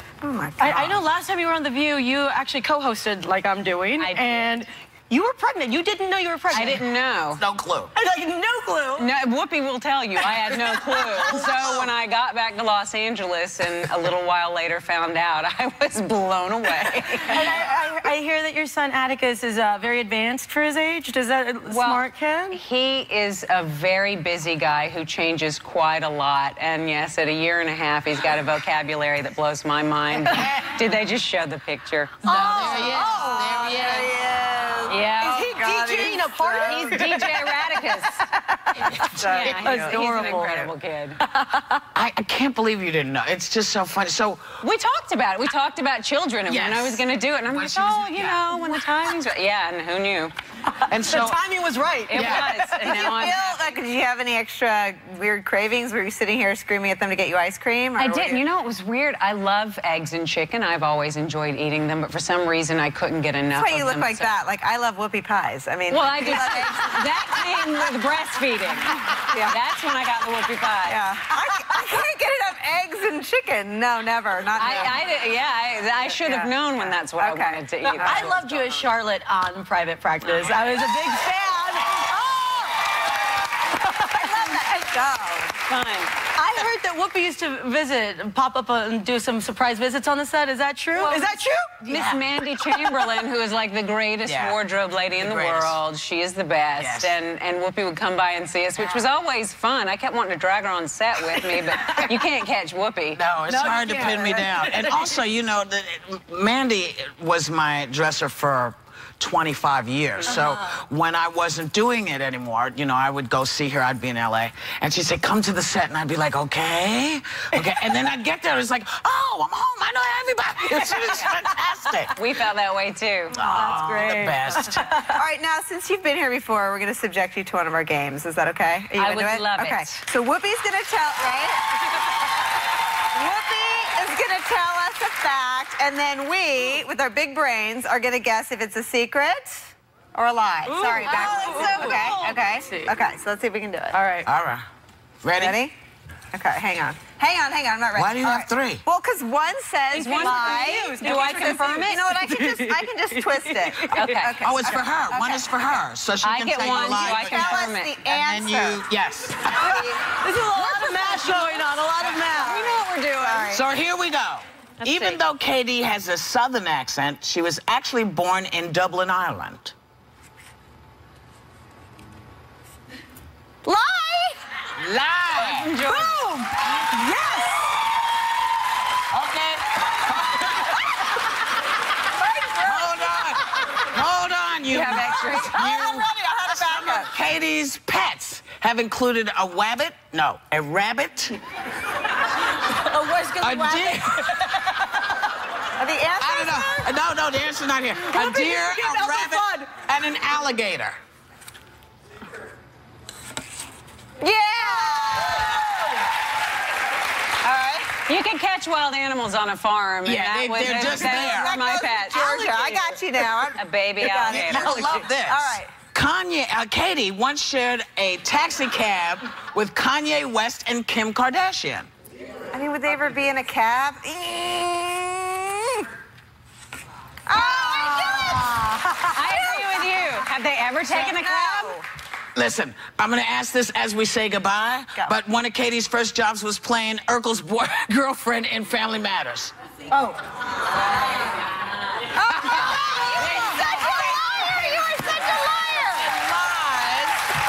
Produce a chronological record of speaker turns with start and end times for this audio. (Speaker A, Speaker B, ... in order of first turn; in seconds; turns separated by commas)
Speaker A: 0.2-1.0, Speaker B: 0.6-6.8, Speaker C: 4.0-4.5, Speaker C: 6.5-7.4, Speaker D: 7.3-7.9, Speaker B: 7.9-9.1, Speaker C: 9.0-17.5, Speaker B: 10.5-11.7, Speaker B: 17.2-22.6, Speaker C: 21.6-32.8, Speaker B: 32.2-33.2, Speaker D: 32.2-34.1, Speaker A: 32.3-37.4, Speaker C: 34.9-35.4, Speaker B: 35.2-38.0, Speaker C: 36.7-38.2, Speaker A: 38.3-40.5, Speaker C: 39.1-41.2, Speaker B: 39.3-40.7, Speaker B: 41.2-41.8, Speaker D: 41.9-44.5, Speaker C: 44.6-50.3, Speaker D: 46.5-48.4, Speaker B: 48.5-49.1, Speaker B: 50.8-53.3, Speaker D: 50.9-51.4, Speaker C: 52.1-53.8, Speaker D: 52.1-52.5, Speaker A: 52.8-58.4, Speaker C: 58.0-64.3, Speaker A: 63.5-67.7, Speaker C: 65.9-71.0, Speaker A: 69.2-69.6, Speaker A: 70.8-75.0, Speaker C: 74.6-78.3, Speaker A: 76.0-78.8, Speaker B: 78.0-82.8, Speaker B: 83.8-84.7, Speaker A: 84.1-85.6, Speaker C: 85.7-86.2, Speaker B: 86.3-92.0, Speaker C: 91.0-91.2, Speaker C: 91.8-103.2, Speaker D: 91.9-92.2, Speaker D: 94.2-94.6, Speaker D: 95.2-95.8, Speaker D: 96.8-97.1, Speaker D: 103.1-122.1, Speaker B: 103.5-105.1, Speaker B: 110.3-110.6, Speaker C: 121.0-121.3, Speaker C: 122.1-123.4, Speaker D: 123.3-124.9, Speaker B: 123.4-125.2, Speaker A: 125.1-132.0, Speaker C: 129.0-130.0, Speaker A: 133.1-144.0, Speaker B: 140.6-142.9, Speaker C: 141.2-142.1, Speaker B: 143.9-144.3, Speaker D: 144.2-144.7, Speaker D: 145.2-145.6, Speaker A: 145.4-145.7, Speaker A: 146.3-155.8, Speaker D: 147.9-148.8, Speaker C: 149.9-152.1, Speaker B: 150.0-154.0, Speaker C: 153.9-154.4, Speaker D: 154.4-159.8, Speaker C: 156.2-158.0, Speaker A: 156.6-158.9, Speaker A: 159.6-160.1, Speaker B: 159.7-162.7, Speaker A: 160.6-163.7, Speaker C: 162.4-163.5, Speaker D: 163.5-169.7, Speaker C: 164.8-165.2, Speaker A: 173.6-174.4, Speaker D: 174.7-175.7, Speaker C: 175.3-176.2, Speaker B: 176.0-177.5, Speaker A: 176.7-177.5, Speaker D: 179.1-180.5, Speaker A: 182.1-183.7, Speaker D: 182.6-191.4, Speaker C: 184.7-185.6, Speaker A: 184.7-187.1, Speaker B: 192.7-195.0, Speaker D: 193.4-194.3, Speaker A: 195.8-196.9, Speaker D: 196.2-201.0, Speaker B: 198.1-199.7, Speaker A: 204.2-205.8, Speaker A: 207.4-207.9, Speaker C: 207.9-212.9, Speaker D: 210.0-211.5, Speaker A: 210.6-215.7, Speaker C: 213.5-215.0, Speaker D: 214.2-221.9, Speaker A: 222.5-225.8, Speaker A: 227.3-230.2, Speaker C: 227.4-228.1, Speaker C: 229.1-231.8, Speaker A: 230.8-231.8, Speaker D: 232.3-239.5, Speaker A: 239.9-240.2, Speaker A: 242.1-246.1, Speaker D: 242.3-244.9, Speaker D: 246.0-247.2